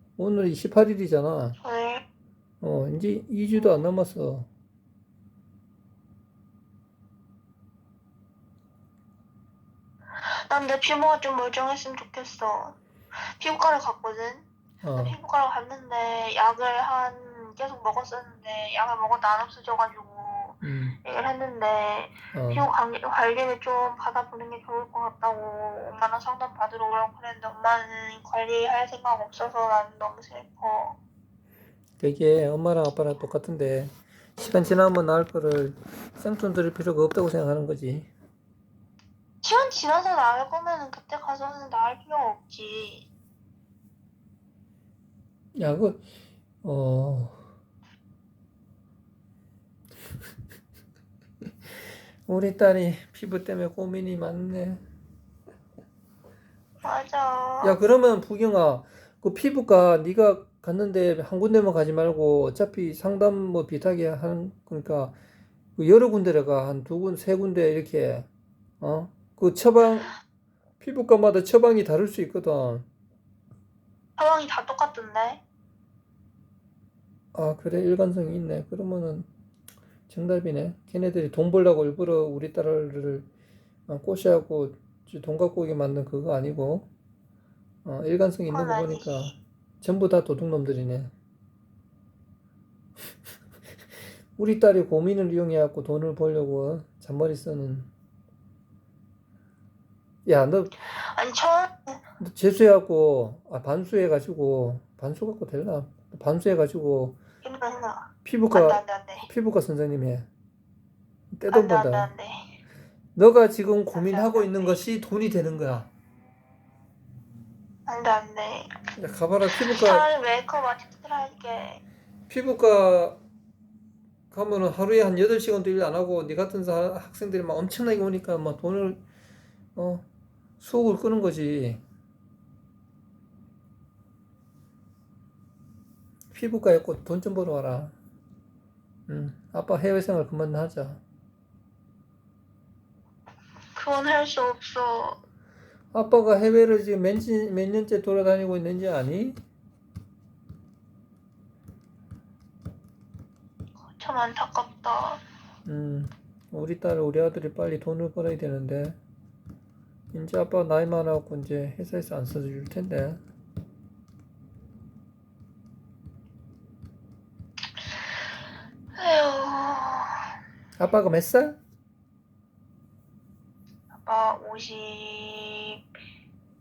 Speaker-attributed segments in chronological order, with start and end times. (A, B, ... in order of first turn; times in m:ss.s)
0:00.2-0:01.6 A
0:01.6-0:02.0 B
0:02.6-0:04.5 A
0:10.2-0:12.8 B
0:13.4-0:31.0 B
0:14.8-0:15.2 A
0:20.6-0:21.0 A
0:22.3-0:22.6 A
0:32.0-0:38.1 A
0:39.4-0:43.1 B
0:45.5-0:46.0 A
0:46.6-0:47.4 A
0:52.3-0:54.8 A
0:56.8-0:57.8 B
0:57.6-1:05.2 A
1:05.8-1:08.3 A
1:08.8-1:10.1 A
1:10.8-1:12.8 A
1:14.2-1:15.4 B
1:17.3-1:19.3 A
1:20.1-1:23.3 A
1:23.9-1:26.9 A
1:27.8-1:31.1 A
1:28.5-1:29.3 B
1:34.4-1:37.9 A
1:40.2-1:40.7 A
1:41.0-1:42.0 B
1:42.2-1:47.2 A
1:47.4-1:49.3 B
1:48.2-1:50.3 A
1:51.3-1:52.1 A
1:51.5-1:52.5 B
1:53.2-1:55.9 A
1:53.9-1:54.8 B
1:57.9-1:58.7 B
1:59.0-2:00.1 A
1:59.6-2:01.8 B
2:02.3-2:03.2 A
2:04.3-2:09.0 A
2:09.7-2:10.0 A
2:10.6-2:11.8 A
2:16.3-2:17.9 A
2:19.1-2:21.0 A
2:23.7-2:25.2 B
2:25.9-2:29.4 A
2:33.9-2:35.2 B
2:35.6-2:39.0 A
2:40.1-2:43.2 A
2:48.9-2:50.2 B
2:50.8-2:51.6 A
2:54.0-2:55.8 B